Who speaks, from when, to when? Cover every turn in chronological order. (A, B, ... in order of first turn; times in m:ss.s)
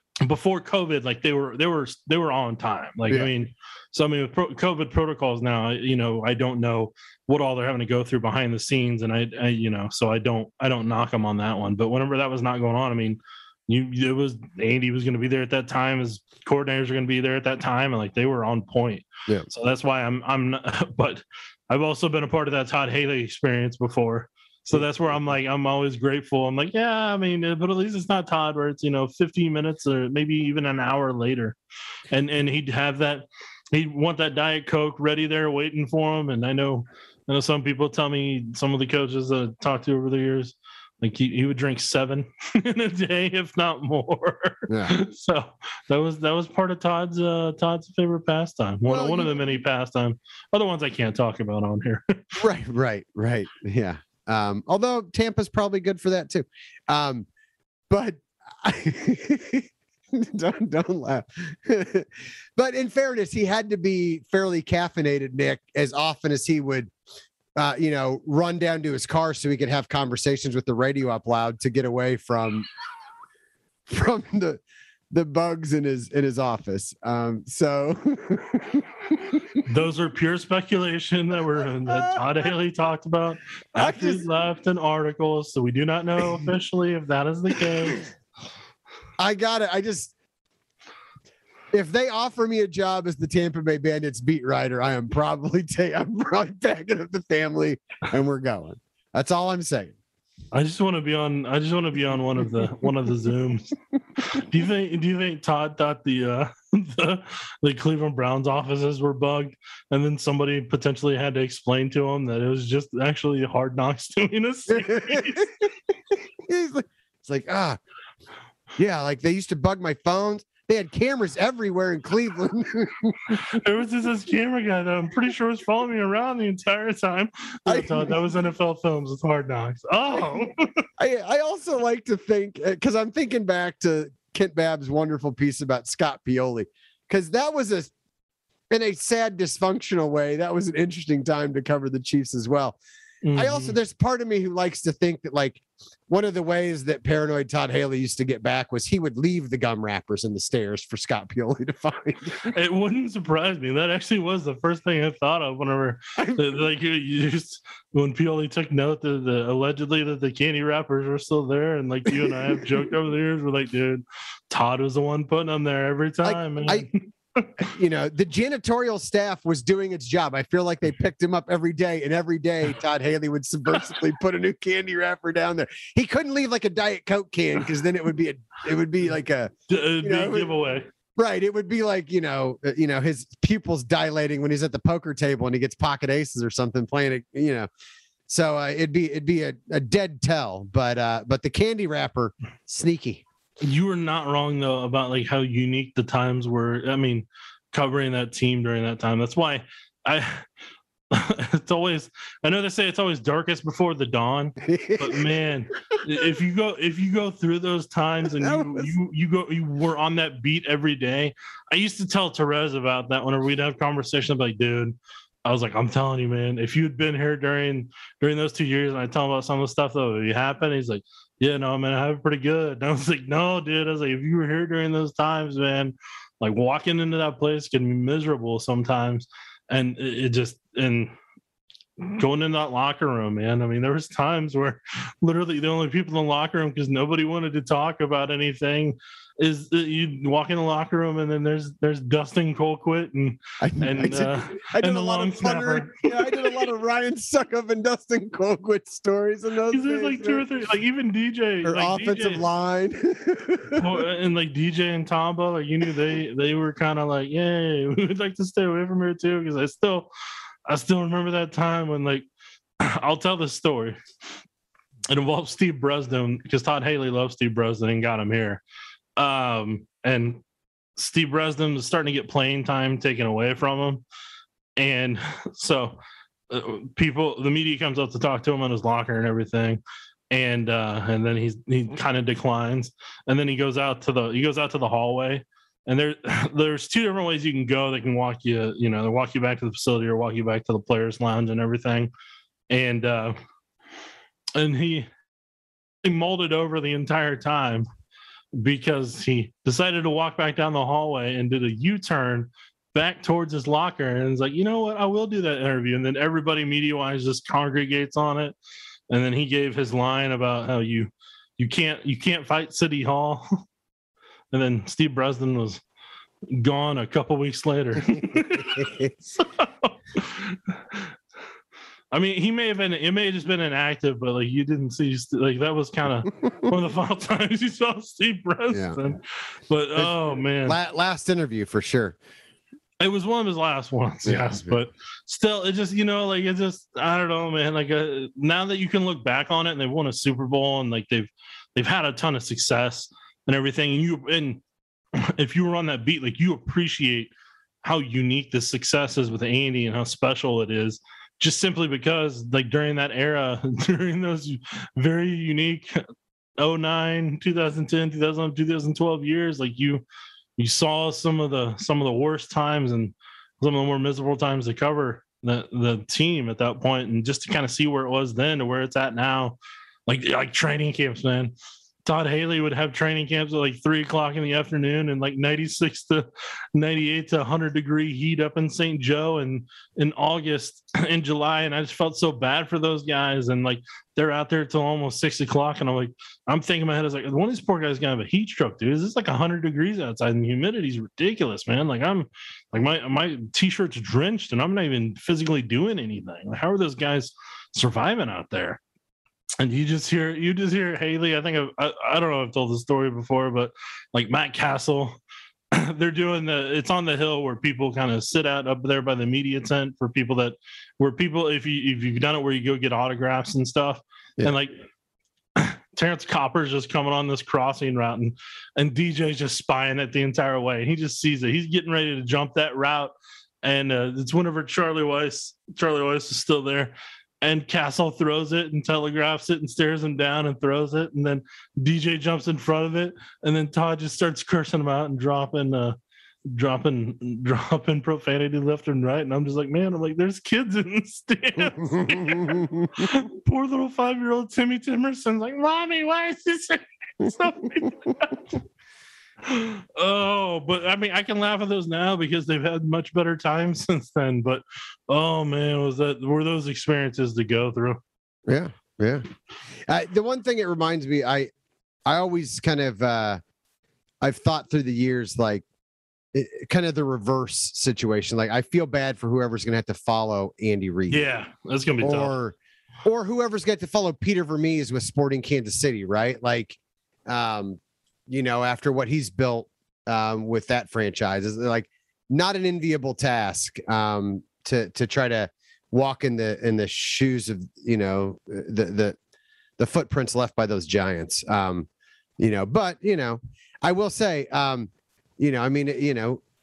0:00.2-0:31.6 A
0:32.1-0:52.4 A
0:44.7-0:44.9 B
0:48.8-0:49.3 B
0:52.4-0:57.3 B
0:57.9-1:06.9 B
1:07.6-1:12.7 B
1:13.9-1:19.6 B
1:19.6-1:28.0 A
1:21.8-1:22.5 B
1:23.7-1:24.2 B
1:29.2-1:30.1 B
1:31.7-1:40.0 B
1:40.5-1:55.5 A
1:54.7-1:55.7 B
1:56.4-1:57.8 B
1:58.8-2:03.2 B
2:03.5-2:10.6 A
2:07.7-2:08.1 B
2:11.0-2:17.9 B
2:18.7-2:22.8 B
2:23.2-2:23.8 A
2:23.3-2:32.5 B
2:32.4-2:47.7 A
2:36.2-2:36.4 B
2:42.1-2:42.6 B
2:46.2-2:46.9 B
2:47.6-3:00.5 B
2:59.7-3:00.9 A
3:01.2-3:07.7 B
3:08.3-3:13.2 B
3:13.6-3:20.5 A
3:21.1-3:51.1 A
3:24.6-3:25.2 B
3:28.4-3:28.9 B
3:52.0-4:06.6 A
4:03.6-4:10.4 B
4:09.7-4:12.4 A
4:11.6-4:13.9 B
4:13.8-4:20.1 A
4:20.7-4:22.3 A
4:22.8-4:24.0 A
4:25.1-4:28.6 A
4:29.2-4:30.4 A
4:31.0-4:34.0 A
4:34.8-4:36.0 A
4:36.5-4:52.1 A
4:52.7-4:53.4 A
4:54.6-4:55.1 A
4:56.0-4:57.8 A
4:58.5-5:08.5 A
5:09.1-5:13.6 A
5:14.5-5:15.8 A
5:16.5-5:21.1 A
5:18.1-5:19.1 B
5:22.1-5:30.8 A
5:28.7-5:29.0 B
5:30.0-5:32.2 B
5:33.0-5:44.6 A
5:34.2-5:34.8 B
5:45.2-5:47.3 A
5:47.8-5:56.0 A
5:56.6-6:00.0 A
6:00.6-6:11.5 A
6:12.0-6:38.8 A
6:39.6-6:45.2 A
6:45.7-6:54.8 A
6:55.6-7:16.0 A
7:16.5-7:28.5 A
7:21.7-7:23.1 B
7:29.4-7:38.0 A
7:38.5-7:39.2 B
7:39.9-7:41.5 B
7:42.0-7:43.4 B
7:44.2-7:45.6 B
7:46.3-7:51.2 B
7:51.1-7:52.3 A
7:52.0-8:09.2 B
8:09.8-8:11.9 B
8:12.4-8:16.4 B